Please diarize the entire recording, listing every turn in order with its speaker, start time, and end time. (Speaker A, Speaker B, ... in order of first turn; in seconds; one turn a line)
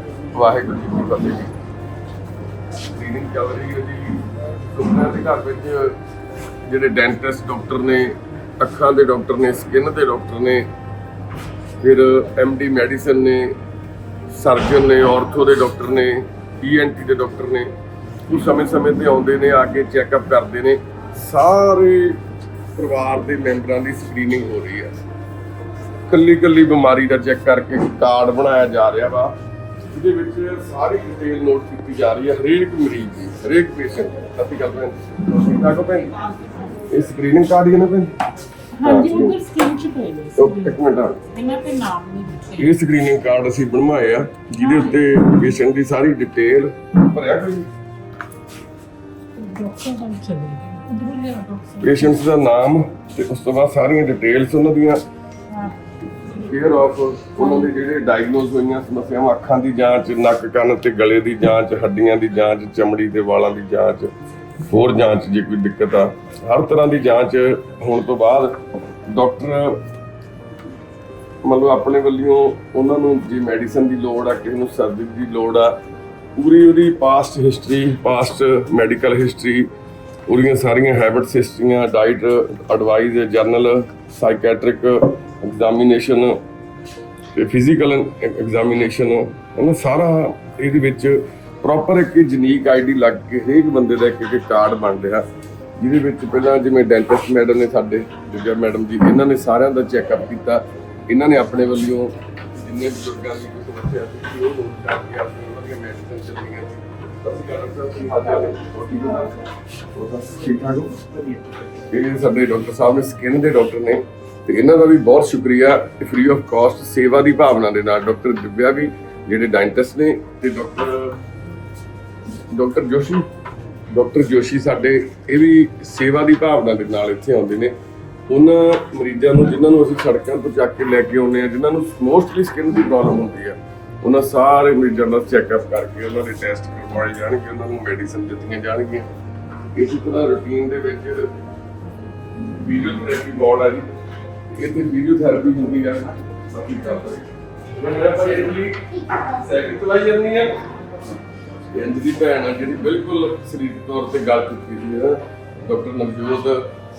Speaker A: 0.3-1.5
Speaker A: 2.9-6.0
Speaker A: 6.6-10.7
Speaker A: 11.8-13.6
Speaker A: 14.3-17.7
Speaker A: 18.3-22.2
Speaker A: 22.7-24.9
Speaker A: 26.1-29.3
Speaker A: 29.9-38.1
Speaker B: 36.4-36.7
Speaker B: 38.7-42.8
Speaker A: 38.8-39.4
Speaker A: 40.4-41.2
Speaker A: 42.5-47.7
Speaker B: 44.6-45.0
Speaker B: 49.3-52.1
Speaker A: 51.8-55.0
Speaker B: 55.5-55.8
Speaker A: 56.3-64.1
Speaker B: 57.4-57.7
Speaker A: 64.7-69.8
Speaker A: 71.4-75.8
Speaker A: 76.3-79.7
Speaker A: 80.3-86.4
Speaker A: 87.3-95.2
Speaker A: 95.8-109.4
Speaker A: 109.9-111.0
Speaker A: 111.9-121.2
Speaker A: 122.5-123.3
Speaker A: 123.9-127.7
Speaker A: 128.3-139.1
Speaker A: 139.7-141.3
Speaker A: 142.5-143.9
Speaker A: 144.5-150.6
Speaker A: 151.7-156.7